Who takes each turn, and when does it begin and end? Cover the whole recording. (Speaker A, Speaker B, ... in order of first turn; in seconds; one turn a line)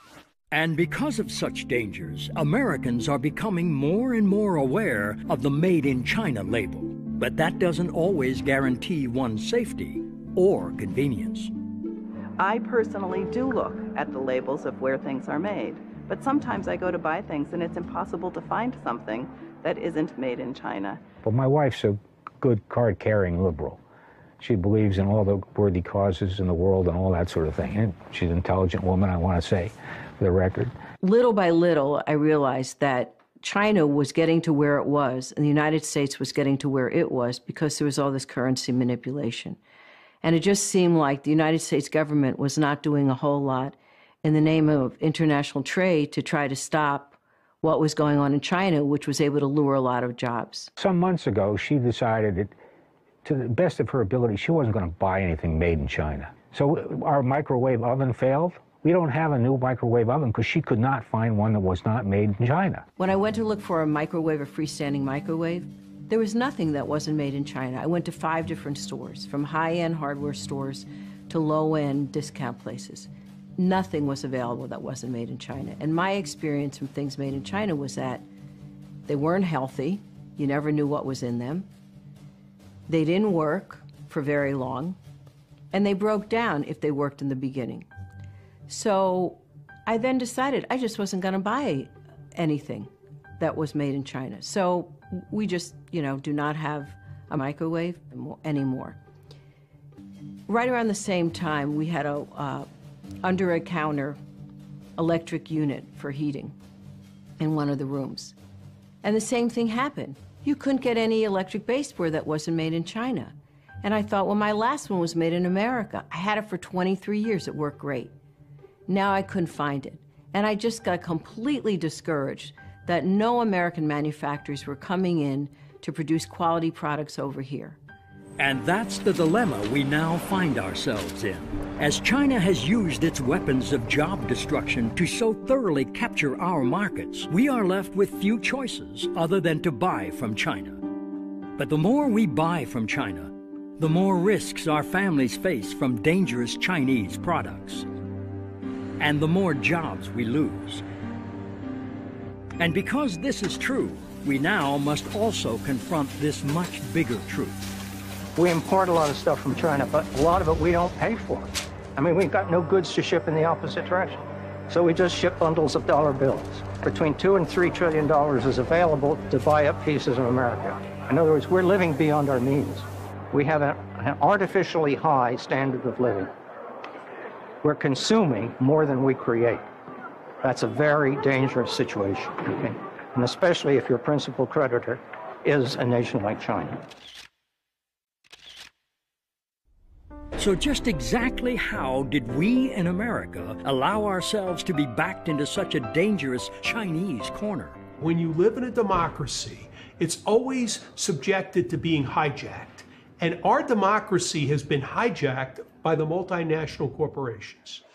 Speaker A: 0.5-11.5
Speaker B: 12.4-21.0
Speaker C: 21.2-23.8
Speaker C: 24.4-30.7
Speaker D: 31.0-39.6
Speaker D: 40.2-50.7
Speaker C: 50.8-52.5
Speaker C: 53.2-62.8
Speaker D: 63.0-78.2
Speaker D: 79.1-81.7
Speaker D: 82.9-85.0
Speaker D: 85.7-87.9
Speaker D: 88.7-99.0
Speaker D: 100.5-102.7
Speaker D: 103.2-104.2
Speaker D: 105.0-106.5
Speaker D: 107.4-108.3
Speaker D: 109.0-118.1
Speaker D: 118.9-127.8
Speaker A: 128.4-140.8
Speaker A: 141.6-147.9
Speaker A: 149.0-150.8
Speaker A: 152.6-157.6
Speaker E: 158.3-176.3
Speaker E: 177.6-179.7
Speaker E: 180.4-186.8
Speaker A: 190.4-197.8
Speaker F: 198.0-207.8